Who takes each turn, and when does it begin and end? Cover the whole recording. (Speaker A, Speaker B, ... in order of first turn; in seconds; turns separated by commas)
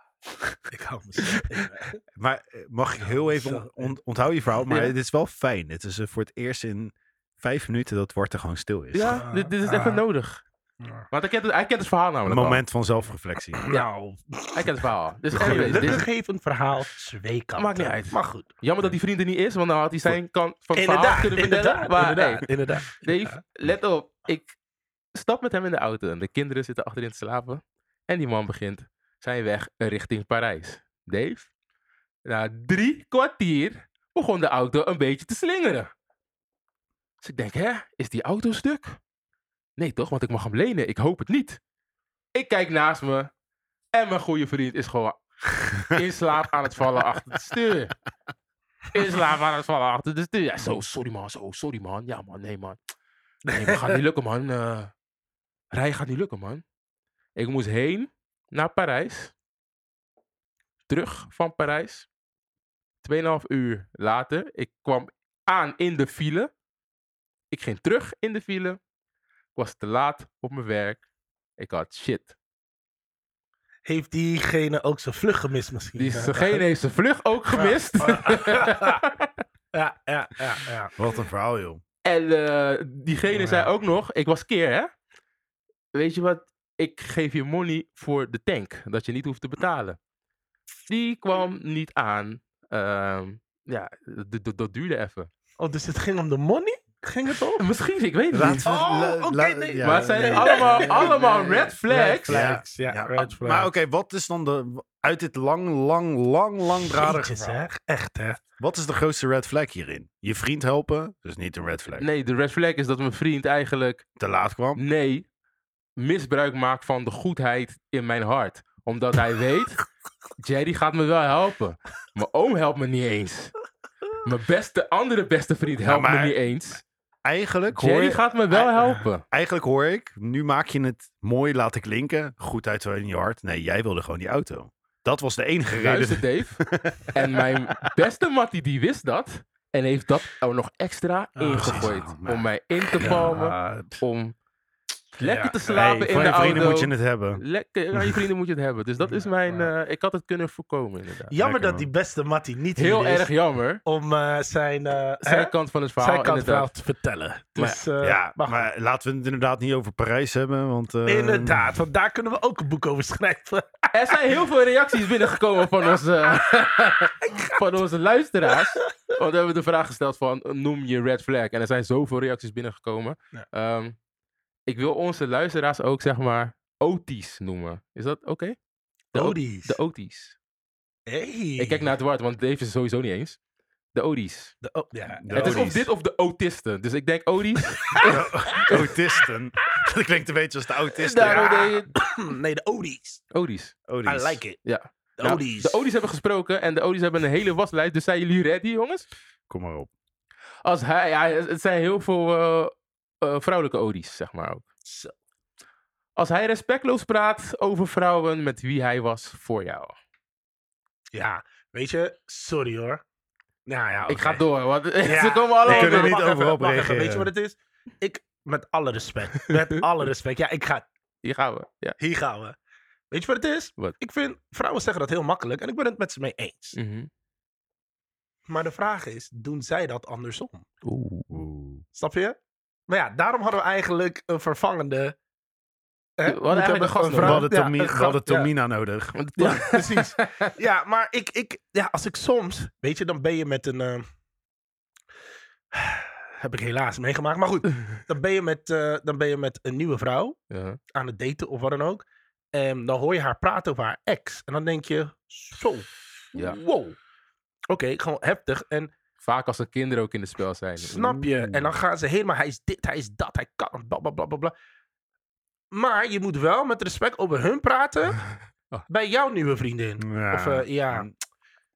Speaker A: 0.4-2.0, Speaker B: 2.2-9.2, Speaker A: 3.0-3.9, Speaker C: 4.7-5.0, Speaker C: 8.9-10.4, Speaker A: 9.1-10.0, Speaker A: 10.8-11.1, Speaker C: 11.1-12.6, Speaker B: 12.3-13.6, Speaker A: 13.6-14.7, Speaker C: 14.5-16.1, Speaker A: 15.3-18.5, Speaker C: 17.6-24.6, Speaker A: 20.7-23.4, Speaker C: 25.1-31.5, Speaker C: 32.2-35.9, Speaker C: 37.2-39.0, Speaker C: 39.8-41.6, Speaker C: 42.4-43.3, Speaker C: 43.9-48.0, Speaker C: 48.9-52.8, Speaker A: 53.5-54.0, Speaker C: 53.5-54.9, Speaker C: 55.7-56.6, Speaker C: 57.4-59.3, Speaker C: 60.9-62.1, Speaker C: 63.0-66.5, Speaker C: 67.5-68.8, Speaker C: 69.6-71.0, Speaker C: 71.6-72.4, Speaker A: 73.8-76.6, Speaker C: 76.0-79.3, Speaker A: 77.5-79.0, Speaker A: 79.7-80.9, Speaker B: 81.0-81.8, Speaker C: 82.0-84.9, Speaker A: 83.3-83.7, Speaker C: 85.9-90.0, Speaker C: 90.9-95.3, Speaker A: 95.6-97.7, Speaker C: 97.6-98.6, Speaker B: 98.3-101.2, Speaker A: 98.4-103.7, Speaker C: 99.8-102.4, Speaker B: 102.3-107.6, Speaker A: 106.7-108.4, Speaker B: 108.6-112.1, Speaker C: 112.0-114.0, Speaker B: 114.2-114.8, Speaker C: 114.8-115.3, Speaker C: 116.0-119.8, Speaker C: 120.4-123.5, Speaker C: 124.1-126.8, Speaker B: 125.8-126.4, Speaker B: 127.2-128.2, Speaker C: 127.7-129.2, Speaker B: 129.3-137.9, Speaker C: 135.8-144.3, Speaker A: 141.4-141.9, Speaker B: 141.6-144.0, Speaker A: 143.0-143.3, Speaker A: 145.2-146.6, Speaker C: 145.2-151.3, Speaker B: 145.7-147.4, Speaker B: 147.9-148.2, Speaker A: 149.0-149.7, Speaker A: 151.3-153.3, Speaker B: 151.4-151.9, Speaker C: 152.8-153.8, Speaker A: 153.8-158.7, Speaker C: 155.2-156.7, Speaker B: 158.0-161.7, Speaker A: 161.1-163.9, Speaker C: 163.9-174.0, Speaker A: 167.2-167.8, Speaker A: 168.8-169.1, Speaker C: 174.7-178.6, Speaker C: 179.1-180.4, Speaker A: 179.2-179.8, Speaker A: 181.1-181.9, Speaker C: 181.6-183.4, Speaker C: 183.9-184.6, Speaker A: 184.6-185.7, Speaker B: 185.2-185.9, Speaker C: 185.3-188.9, Speaker B: 188.0-191.7, Speaker C: 191.0-192.0, Speaker A: 191.2-193.2, Speaker C: 193.3-193.8, Speaker B: 193.9-194.4, Speaker A: 194.1-194.6, Speaker C: 194.6-199.1, Speaker A: 195.2-195.8, Speaker B: 199.5-199.9, Speaker C: 200.7-204.6, Speaker A: 204.8-205.1, Speaker C: 206.2-210.0, Speaker A: 211.1-213.0, Speaker A: 213.7-214.4, Speaker C: 214.1-216.2, Speaker A: 215.0-220.9, Speaker B: 215.7-217.3, Speaker C: 221.2-222.0, Speaker A: 222.0-222.6, Speaker A: 223.1-226.8, Speaker C: 226.8-227.1, Speaker A: 228.5-230.7, Speaker C: 230.8-231.3, Speaker B: 231.3-231.8, Speaker A: 231.9-232.4, Speaker A: 232.9-235.2, Speaker A: 236.2-238.5, Speaker C: 236.2-237.5, Speaker B: 237.1-239.3, Speaker C: 239.2-240.5, Speaker A: 239.4-244.1, Speaker A: 245.7-250.4, Speaker C: 250.5-250.8, Speaker A: 250.9-257.0, Speaker A: 257.7-258.9, Speaker C: 259.2-261.2, Speaker A: 260.8-264.5, Speaker B: 261.2-261.7, Speaker A: 265.7-268.2, Speaker A: 268.9-271.1, Speaker B: 270.0-271.1